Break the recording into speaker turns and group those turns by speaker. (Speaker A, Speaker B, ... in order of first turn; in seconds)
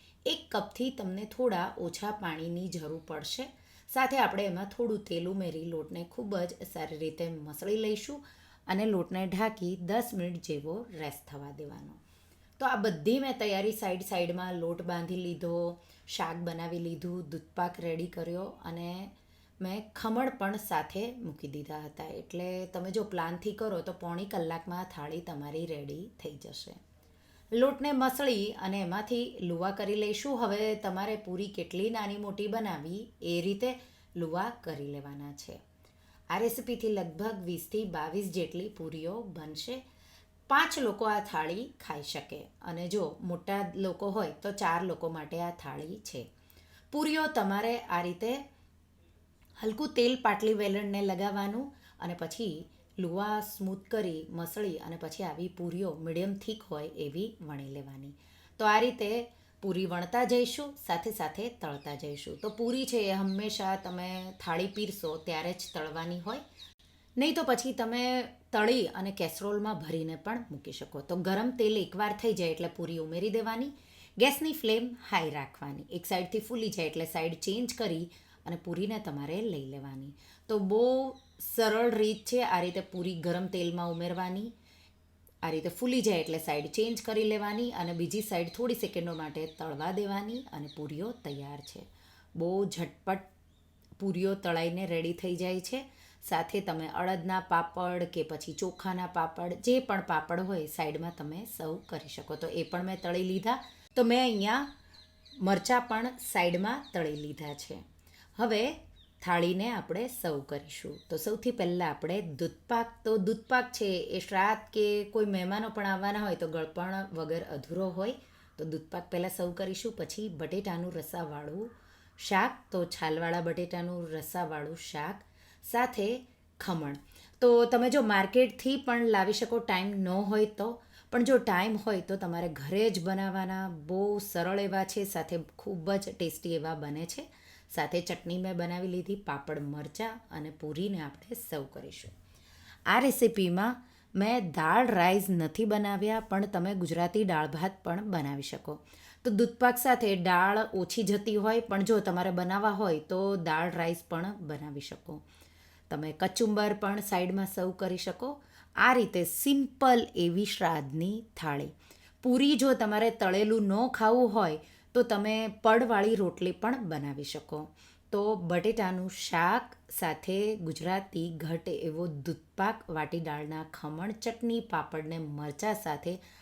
Speaker A: 0.3-12.0, 12.6-26.8, 27.5-35.6, 36.3-39.8, 40.5-46.3, 46.9-48.4, 49.6-66.4, 67.2-84.5, 85.4-91.9, 92.4-93.3, 94.0-104.7, 105.4-107.8, 108.4-142.1, 142.9-155.2, 155.9-176.2